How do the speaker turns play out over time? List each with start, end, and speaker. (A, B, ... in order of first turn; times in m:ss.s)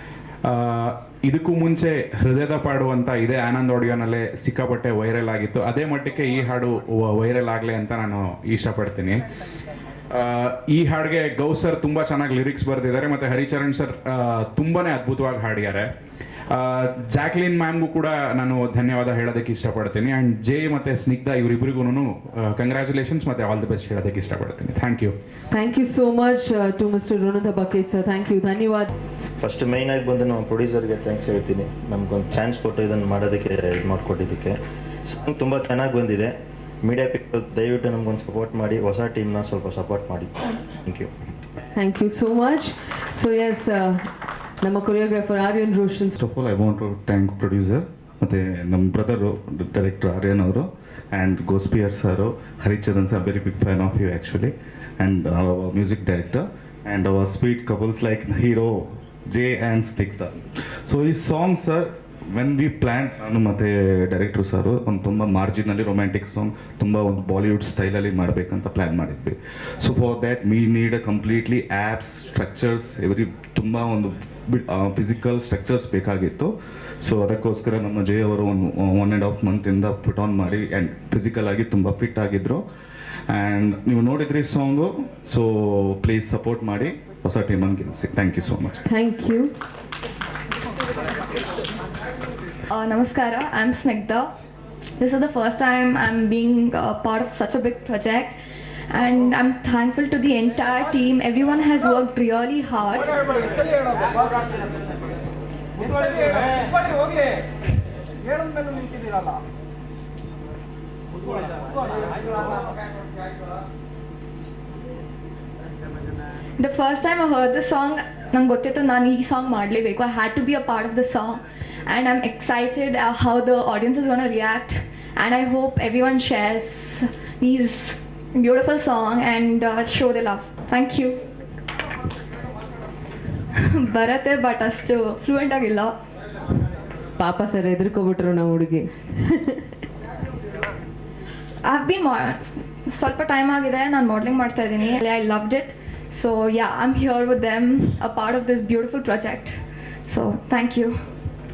0:00.4-0:09.2 A
0:10.1-0:15.9 A
0:16.5-0:25.1 A
0:25.5-0:28.9 B
0:29.4-0:40.3 C
0:41.7-0:44.0 B
0:44.6-0:46.1 B
0:46.2-0:58.8 D
0:59.3-1:00.4 D
1:00.9-1:16.5 D
1:17.0-1:22.6 D
1:23.3-1:28.8 D
1:28.8-1:29.5 B
1:32.7-1:34.3 E
1:35.0-1:38.4 E
1:38.9-1:43.1 E
1:56.6-2:11.2 E
2:13.7-2:16.0 E
2:17.2-2:19.6 B
2:21.6-2:30.9 E